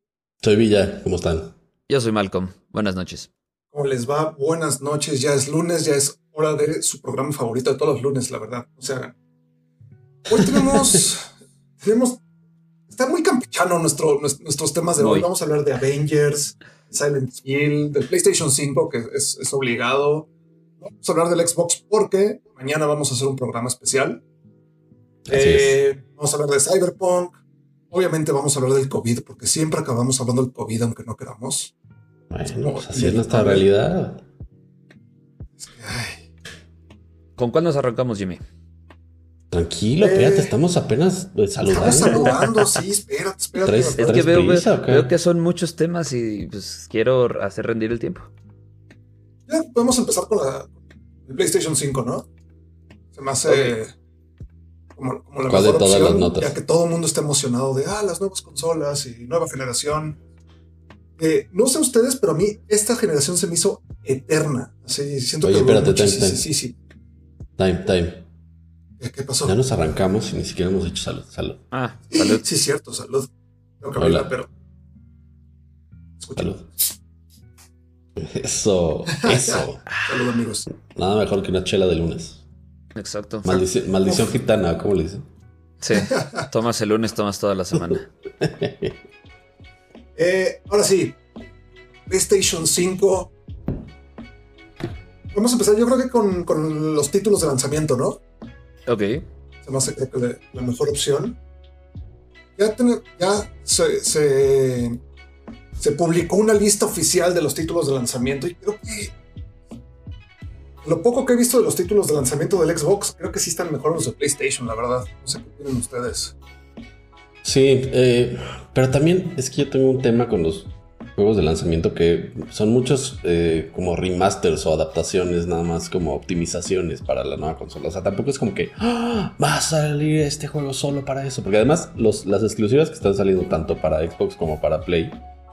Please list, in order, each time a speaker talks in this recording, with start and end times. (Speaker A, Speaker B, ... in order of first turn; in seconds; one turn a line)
Speaker A: 0.4-1.5
Speaker B: 1.9-3.3
Speaker C: 3.7-9.1
Speaker C: 10.3-11.3
Speaker C: 11.8-12.2
Speaker C: 12.9-20.3
Speaker B: 15.0-15.3
Speaker C: 20.8-24.2
Speaker A: 25.3-25.8
Speaker C: 25.3-27.4
Speaker C: 27.9-31.7
Speaker A: 32.3-34.2
Speaker C: 32.6-33.7
Speaker C: 35.6-36.2
Speaker B: 37.4-38.4
Speaker A: 39.5-42.4
Speaker C: 40.0-40.5
Speaker C: 41.7-44.3
Speaker B: 42.2-42.5
Speaker A: 43.6-45.1
Speaker B: 44.0-48.3
Speaker C: 49.5-50.7
Speaker C: 51.3-52.3
Speaker C: 53.1-53.9
Speaker B: 53.5-53.7
Speaker C: 54.9-60.2
Speaker A: 55.5-56.5
Speaker C: 61.2-66.8
Speaker A: 65.4-66.4
Speaker A: 67.6-68.2
Speaker C: 69.0-69.5
Speaker A: 69.4-71.6
Speaker B: 71.7-72.4
Speaker C: 72.1-73.3
Speaker C: 73.8-74.5
Speaker A: 74.0-74.3
Speaker C: 76.2-76.9
Speaker A: 76.3-76.6
Speaker A: 78.2-79.9
Speaker C: 79.1-80.7
Speaker A: 80.9-82.4
Speaker B: 82.9-83.5
Speaker A: 83.4-85.2
Speaker C: 83.5-84.3
Speaker B: 85.8-88.1
Speaker C: 85.9-86.5
Speaker A: 87.7-89.0
Speaker C: 90.2-91.2
Speaker C: 92.1-93.3
Speaker C: 95.3-98.2
Speaker B: 98.9-99.2
Speaker C: 99.6-101.4
Speaker C: 102.6-105.0
Speaker C: 105.8-109.1
Speaker C: 110.8-116.3
Speaker A: 117.4-135.2